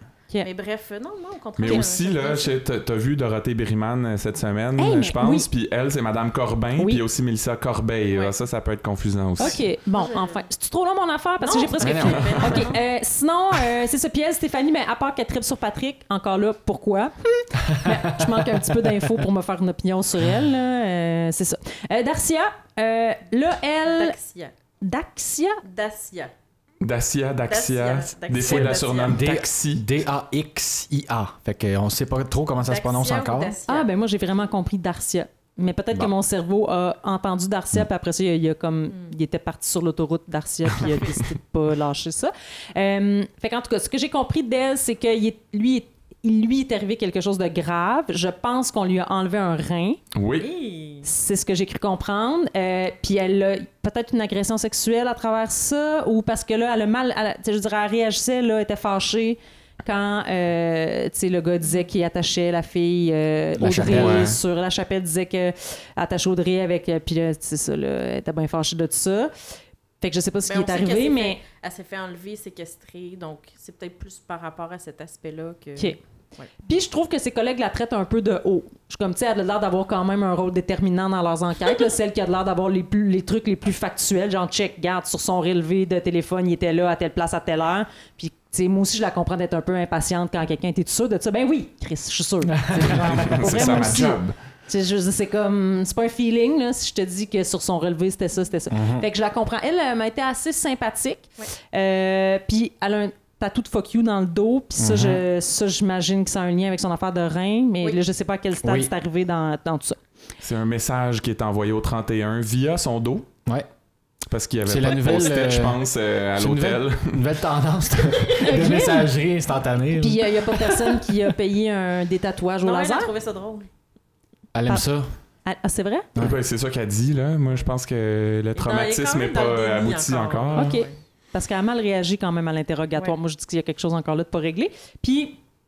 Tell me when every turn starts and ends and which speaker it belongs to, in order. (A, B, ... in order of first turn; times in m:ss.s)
0:00.4-0:02.6 A
0:01.6-0:09.6 B
0:04.8-0:05.5 C
0:06.8-0:07.0 C
0:09.4-0:24.2 C
0:09.4-0:10.4 A
0:11.4-0:12.8 A
0:11.8-0:12.3 D
0:12.1-0:12.6 B
0:17.8-0:18.3 D
0:23.9-0:24.5 A
0:24.8-0:25.6 C
0:25.6-0:26.3 A
0:26.8-0:29.8 B
0:27.5-0:29.2 A
0:28.5-0:33.5 D
0:32.6-0:33.9 A
0:33.7-0:50.0 C
0:40.8-0:41.2 A
0:50.1-0:50.5 B
0:50.4-0:51.1 A
0:51.0-1:09.3 C
1:03.6-1:04.3 D
1:03.9-1:04.4 B
1:10.0-1:11.4 C
1:10.4-1:16.5 A
1:16.6-1:50.0 C
1:32.5-1:34.0 D
1:33.0-1:34.3 B
1:38.7-1:39.1 D
1:44.8-1:45.2 D
1:48.6-1:48.9 D
1:50.4-1:53.3 B
1:54.3-1:57.2 B
1:54.6-1:55.8 D
1:56.4-2:00.9 D
1:58.4-1:59.1 C
2:00.0-2:03.1 C
2:02.6-2:03.7 A
2:04.5-2:05.1 D
2:05.4-2:06.1 C
2:06.2-2:10.8 B
2:08.6-2:11.0 A
2:10.5-2:15.4 C